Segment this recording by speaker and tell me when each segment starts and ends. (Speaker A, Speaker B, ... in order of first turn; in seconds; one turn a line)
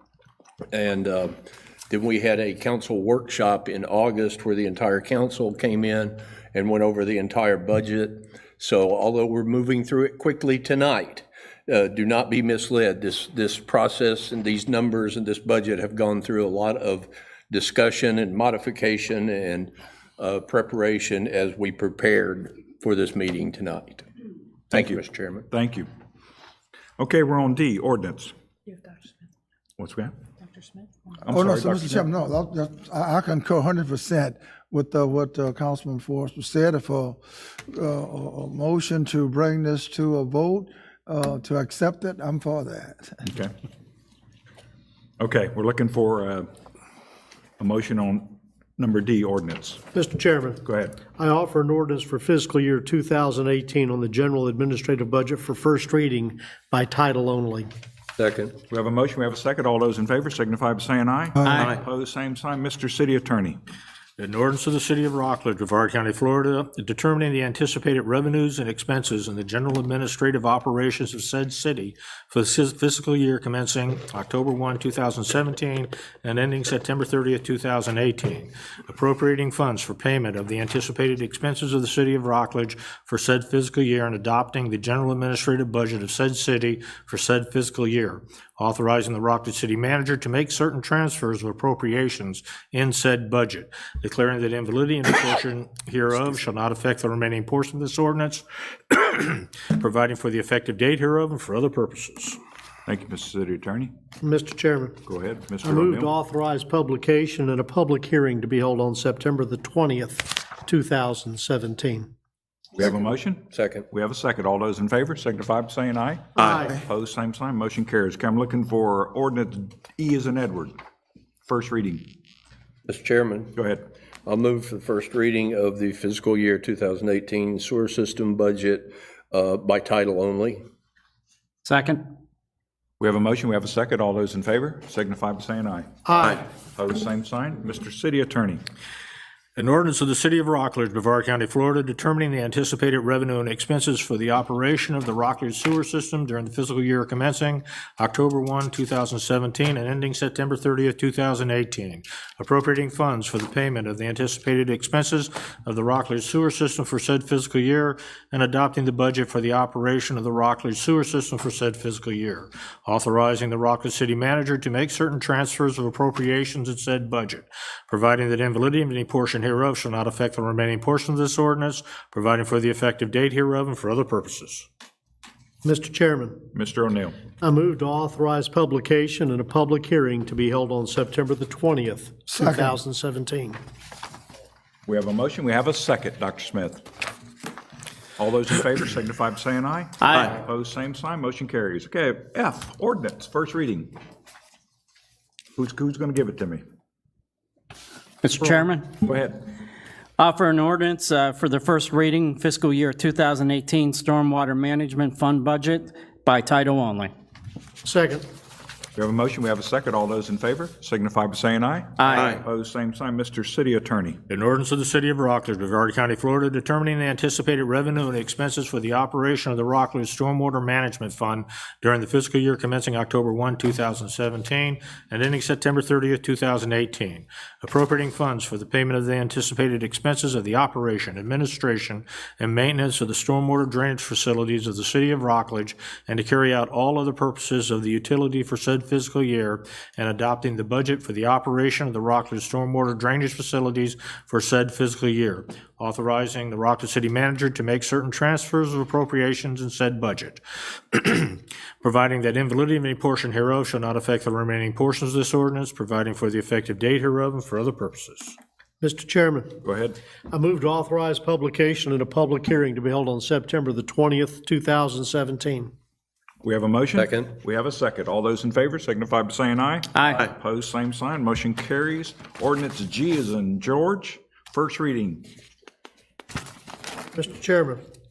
Speaker A: 0.7-1.4
Speaker A: 1.9-24.1
Speaker A: 24.7-25.5
Speaker B: 24.7-25.9
Speaker B: 27.0-28.3
Speaker B: 29.8-30.1
Speaker B: 31.2-32.1
Speaker C: 31.3-43.2
Speaker B: 43.2-43.5
Speaker B: 45.2-46.5
Speaker B: 47.6-49.8
Speaker D: 49.9-50.6
Speaker B: 50.6-51.0
Speaker D: 51.1-57.7
Speaker A: 58.2-58.5
Speaker B: 58.7-63.6
Speaker C: 61.4-61.7
Speaker E: 64.2-102.4
Speaker B: 102.8-103.9
Speaker D: 104.2-105.0
Speaker B: 105.0-106.1
Speaker D: 105.6-112.1
Speaker B: 112.8-120.8
Speaker A: 113.5-113.9
Speaker B: 121.5-122.1
Speaker A: 122.9-123.6
Speaker B: 123.5-123.8
Speaker A: 124.2-130.6
Speaker F: 131.6-132.0
Speaker B: 133.0-135.9
Speaker B: 136.7-138.6
Speaker E: 139.6-174.7
Speaker D: 175.6-176.4
Speaker B: 176.5-177.2
Speaker D: 177.4-183.6
Speaker C: 182.3-182.8
Speaker B: 184.9-186.9
Speaker B: 188.2-193.9
Speaker B: 195.6-196.6
Speaker F: 198.2-198.8
Speaker B: 199.0-199.5
Speaker F: 200.2-207.1
Speaker D: 207.8-208.2
Speaker B: 208.9-214.2
Speaker E: 214.3-250.4
Speaker E: 250.9-258.4
Speaker D: 258.8-259.6
Speaker B: 259.6-260.0
Speaker D: 260.3-265.7
Speaker B: 266.4-275.2
Speaker A: 266.9-267.3
Speaker D: 277.1-277.8